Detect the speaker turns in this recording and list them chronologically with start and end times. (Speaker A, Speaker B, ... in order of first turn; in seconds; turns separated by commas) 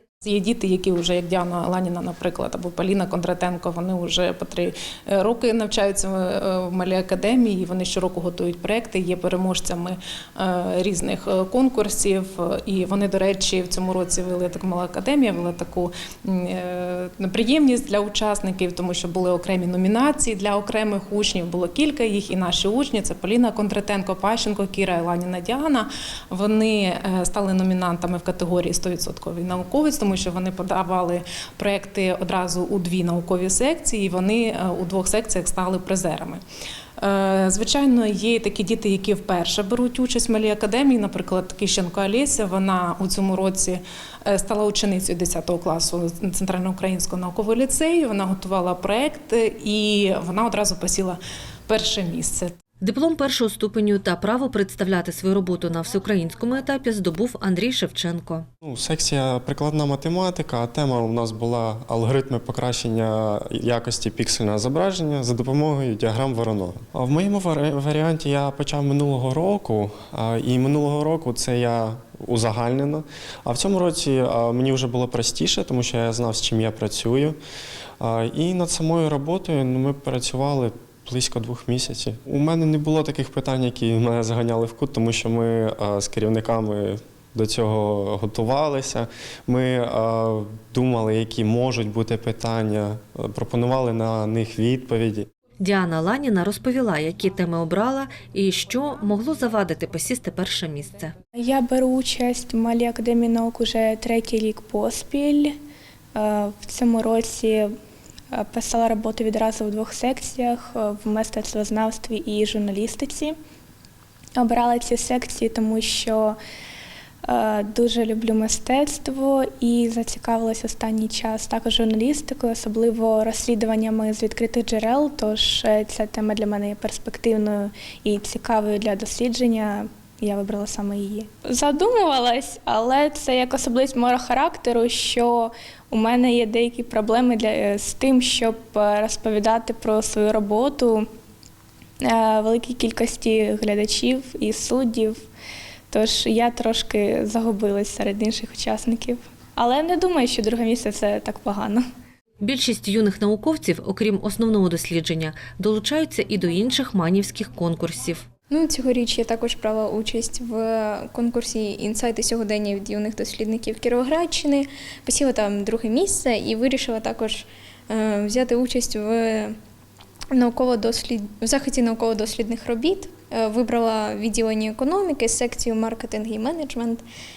Speaker A: 0.2-36.4, Speaker A: 37.0-52.5, Speaker B: 52.8-58.5, Speaker C: 58.6-77.4, Speaker C: 78.0-95.3, Speaker B: 95.6-101.2, Speaker D: 101.3-105.5, Speaker D: 106.2-107.7, Speaker D: 108.3-113.3, Speaker D: 114.4-116.4, Speaker D: 117.2-141.1, Speaker D: 142.0-145.2, Speaker D: 145.9-151.8, Speaker B: 152.4-158.3, Speaker E: 158.5-169.5, Speaker E: 170.3-177.0